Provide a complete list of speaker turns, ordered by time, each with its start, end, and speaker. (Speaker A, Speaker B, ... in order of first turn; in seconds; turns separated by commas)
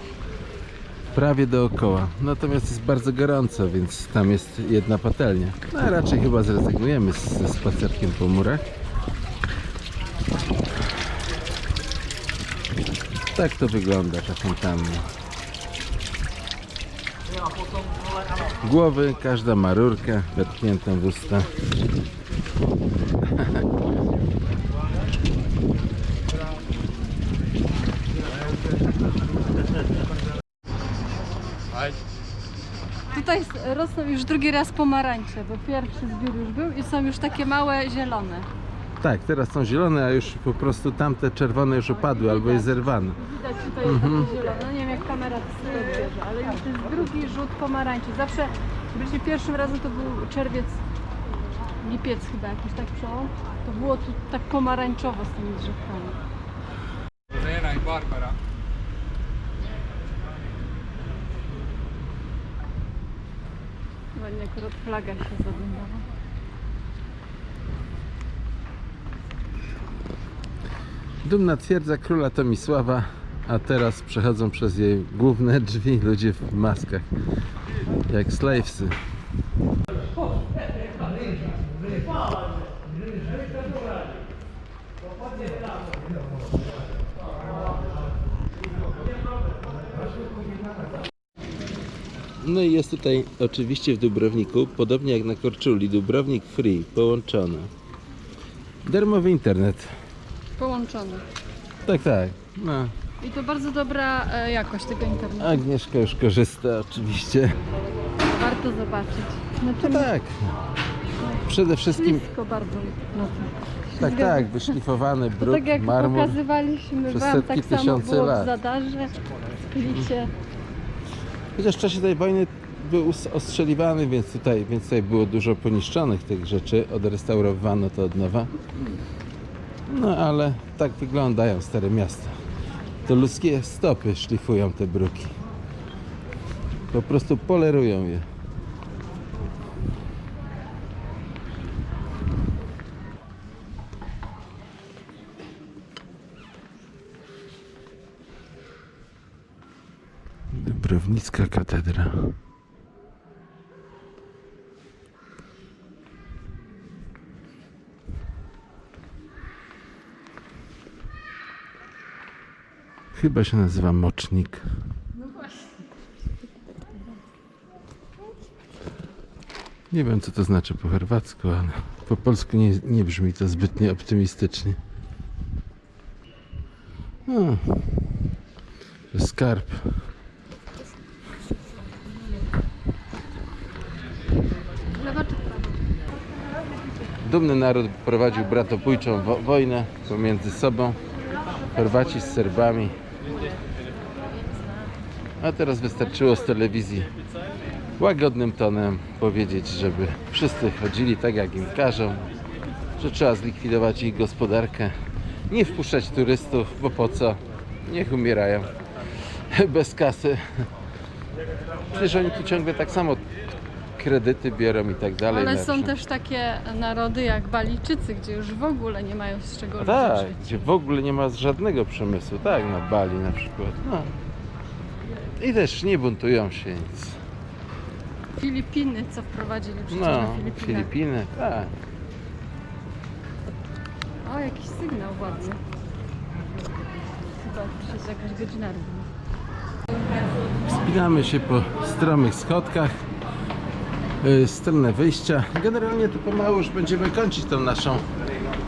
Speaker A: 1.1-8.6, Speaker A: 13.3-15.1, Speaker A: 18.6-21.5, Speaker A: 23.2-23.6, Speaker B: 33.1-38.5, Speaker A: 39.0-43.2, Speaker B: 41.9-50.8, Speaker A: 43.8-44.3, Speaker B: 51.8-56.2, Speaker B: 64.1-66.0, Speaker A: 71.2-77.1, Speaker A: 78.1-79.0, Speaker A: 92.4-97.7, Speaker A: 98.8-99.9, Speaker B: 100.6-101.2, Speaker A: 101.8-102.9, Speaker B: 103.2-105.6, Speaker A: 105.4-107.5, Speaker B: 108.2-110.1, Speaker A: 109.8-110.5, Speaker B: 111.2-114.8, Speaker A: 111.5-112.2, Speaker A: 114.0-116.4, Speaker B: 115.4-120.3, Speaker A: 117.1-118.5, Speaker A: 121.5-128.7, Speaker A: 129.9-132.3, Speaker A: 133.1-135.3, Speaker A: 136.9-138.2, Speaker A: 150.5-152.3, Speaker A: 163.1-164.7, Speaker A: 169.9-174.8, Speaker A: 177.3-178.2, Speaker A: 179.1-180.1, Speaker B: 184.9-185.7, Speaker A: 187.2-191.0, Speaker A: 191.7-192.9, Speaker A: 195.4-197.1, Speaker A: 198.0-202.3, Speaker A: 203.0-204.9, Speaker A: 205.5-208.7, Speaker A: 209.5-210.7, Speaker A: 211.9-213.2, Speaker A: 214.0-215.9, Speaker B: 215.3-220.7, Speaker A: 219.8-224.1, Speaker A: 225.4-227.2, Speaker B: 228.4-230.9, Speaker A: 229.9-231.7, Speaker B: 234.2-235.6, Speaker B: 237.3-239.1, Speaker A: 240.7-242.9, Speaker A: 244.2-248.1